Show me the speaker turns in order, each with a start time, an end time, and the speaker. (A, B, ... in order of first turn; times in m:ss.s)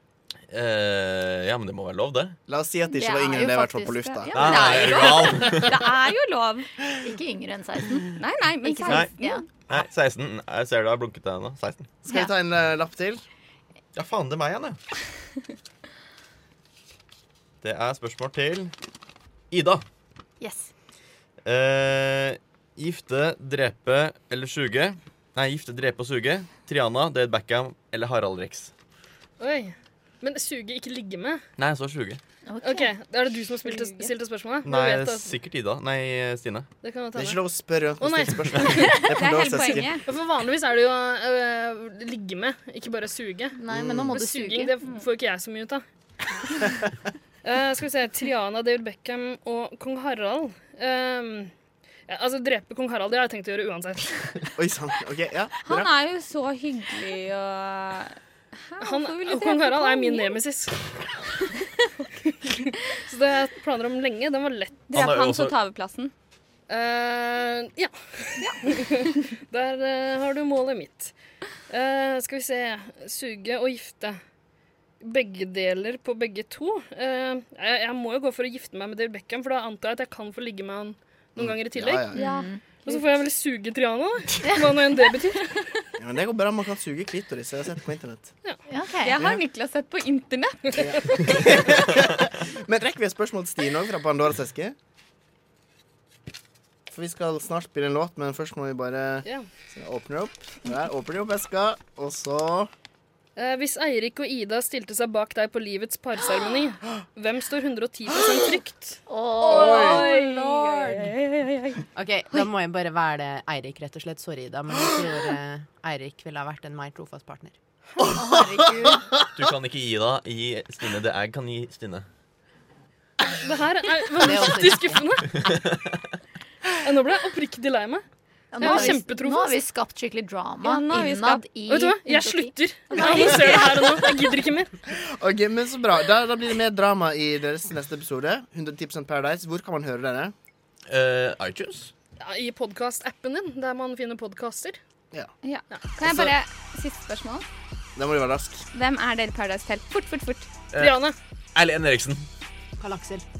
0:00.5-0:02.4 A
0:02.5-0:04.8 B
0:03.0-0:04.3 C
0:04.3-0:06.7 D
0:04.3-0:05.7 A
0:07.0-0:09.4 C
0:08.1-0:09.5 D
0:08.9-0:11.9 A
0:12.0-0:13.2 B
0:13.9-0:14.8 A
0:17.6-0:18.7 A
0:19.5-0:19.8 A
0:20.4-0:20.7 C
0:21.4-0:28.7 A
0:29.4-0:31.4 E
0:31.6-0:32.2 A
0:32.4-0:32.9 C
0:32.6-0:35.4 E
0:33.6-0:34.1 D
0:34.6-0:36.7 A
0:36.8-0:37.4 E
0:37.2-0:39.9 B
0:38.0-0:38.9 E
0:38.8-0:40.0 D
0:40.0-0:43.6 E
0:43.6-0:44.7 C
0:43.7-0:44.2 B
0:44.1-0:45.8 E
0:47.4-0:51.5 E
0:52.1-0:54.3 E
0:54.5-0:55.9 B
0:55.6-1:00.4 D
0:58.8-1:00.8 E
1:01.4-1:02.1 D
1:02.4-1:04.9 E
1:04.9-1:06.1 D
1:04.9-1:05.5 A
1:06.7-1:11.1 E
1:08.4-1:09.0 D
1:11.7-1:14.2 E
1:15.0-1:22.1 E
1:21.4-1:22.3 B
1:22.1-1:22.6 C
1:22.2-1:22.6 D
1:22.8-1:25.7 E
1:26.0-1:28.3 B
1:28.7-1:29.2 C
1:29.0-1:30.9 D
1:30.8-1:34.8 B
1:36.9-1:42.7 B
1:43.4-1:51.0 E
1:49.1-1:50.1 C
1:49.5-1:51.8 D
1:49.5-1:50.0 B
1:51.9-1:57.6 F
1:58.0-1:59.0 C
1:59.3-2:02.1 A
2:03.4-2:05.4 E
2:04.2-2:05.6 F
2:06.8-2:08.0 E
2:08.5-2:13.8 C
2:08.6-2:09.6 E
2:10.6-2:11.5 D
2:11.7-2:14.7 E
2:12.9-2:13.8 D
2:14.9-2:20.3 B
2:20.9-2:21.9 A
2:22.2-2:24.8 E
2:25.4-2:27.5 D
2:26.0-2:26.3 B
2:28.0-2:28.7 B
2:28.7-2:30.5 D
2:30.7-2:31.0 A
2:30.8-2:31.2 E
2:31.5-2:32.3 A
2:32.8-2:33.2 F